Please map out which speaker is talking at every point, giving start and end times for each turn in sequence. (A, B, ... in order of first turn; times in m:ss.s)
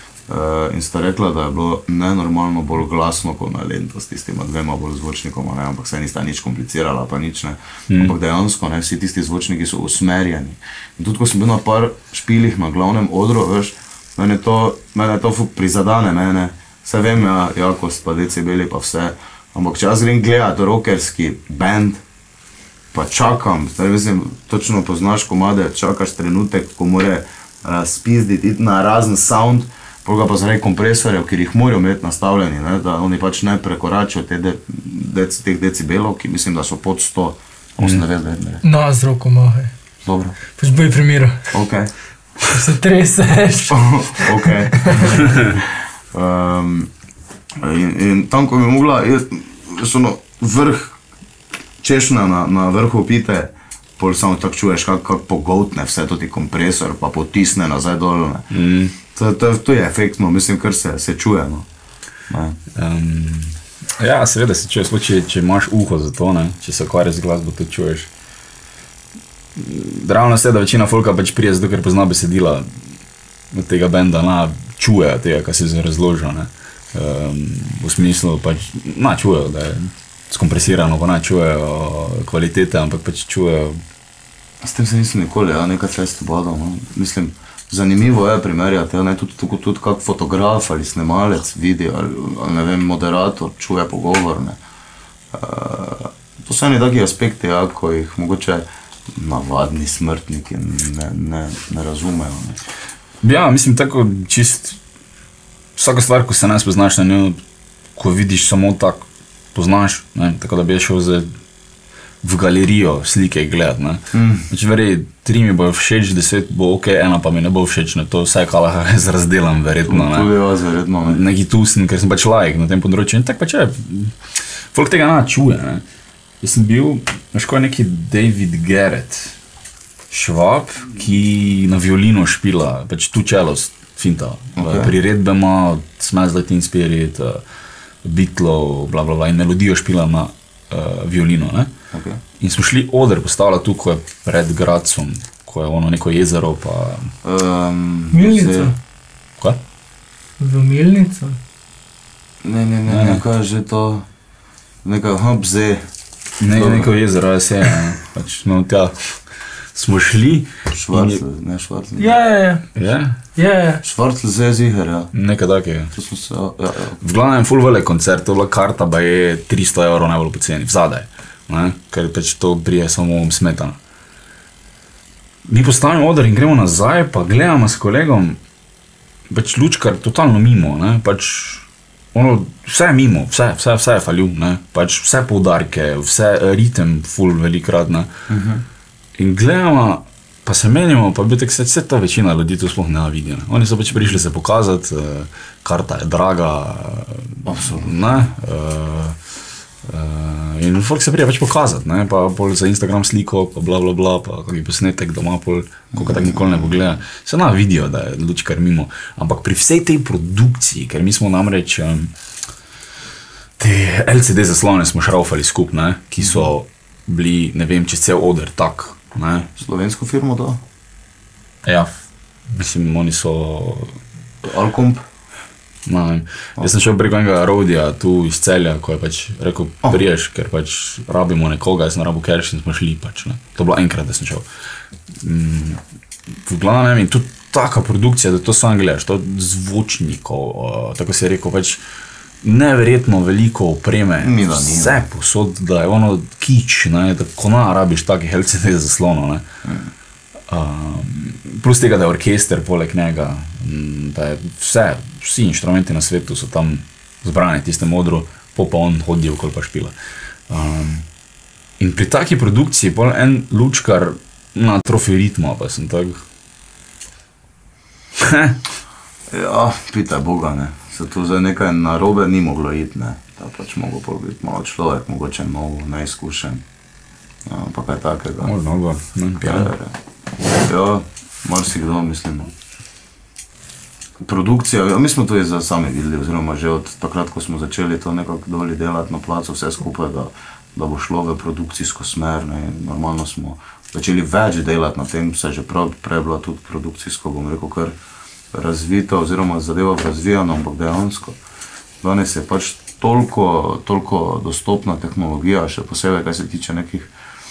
0:00.3-0:22.0 A
0:07.9-0:08.1 B
0:22.9-0:38.6 A
0:38.6-0:39.7 C
0:40.0-0:40.4 A
0:40.6-0:41.5 C
0:41.5-0:41.9 A
0:42.4-0:45.3 C
0:43.7-0:46.9 A
0:47.6-0:51.0 A
0:51.8-0:58.5 A
0:58.5-0:58.9 B
0:59.0-1:01.7 A
1:02.3-1:02.6 A
1:02.7-1:08.1 B
1:09.5-1:12.7 B
1:13.5-1:23.8 B
1:24.6-1:34.6 A
1:35.3-1:42.6 A
1:43.2-1:44.8 B
1:45.8-1:47.4 B
1:47.9-1:51.3 B
1:52.2-2:00.3 B
1:54.1-1:54.5 A
1:59.9-2:01.2 A
2:01.0-2:04.2 B
2:04.7-2:05.8 B
2:06.4-2:09.4 B
2:10.1-2:17.4 B
2:14.6-2:14.9 A
2:18.0-2:21.7 B
2:21.9-2:22.2 A
2:22.4-2:27.1 B
2:27.2-2:28.7 A
2:28.1-2:28.7 C
2:30.4-2:31.4 C
2:32.4-2:34.0 A
2:32.9-2:33.2 B
2:34.8-2:35.8 A
2:36.4-2:39.1 B
2:36.5-2:36.9 A
2:39.7-2:41.2 B
2:40.7-2:42.2 A
2:42.0-2:42.6 C
2:42.8-2:43.2 B
2:43.4-2:43.8 C
2:43.8-2:45.1 A
2:45.1-2:45.9 B
2:45.9-2:47.0 A
2:47.0-2:53.8 B
2:55.5-2:58.4 B
2:59.3-3:08.1 B
3:08.3-3:08.6 A
3:09.2-3:19.2 B
3:17.4-3:18.3 A
3:19.8-3:32.1 B
3:25.9-3:26.7 A
3:33.6-3:39.5 B
3:36.2-3:36.5 A
3:39.6-3:40.6 A
3:41.6-3:41.9 B
3:42.5-3:44.0 B
3:44.4-3:45.0 A
3:45.8-3:54.4 B
3:55.2-3:55.8 B
3:56.4-4:01.8 B
4:02.4-4:09.4 B
4:04.2-4:05.0 A
4:09.6-4:09.9 A
4:10.5-4:19.9 B
4:20.5-4:21.0 B
4:21.8-4:26.2 B
4:28.2-4:28.6 B
4:29.3-4:36.6 A
4:37.4-4:38.5 A
4:38.4-4:39.7 B
4:39.4-4:40.0 A
4:40.5-4:42.5 A
4:44.2-4:58.0 A
4:58.5-5:01.4 A
5:02.0-5:07.1 A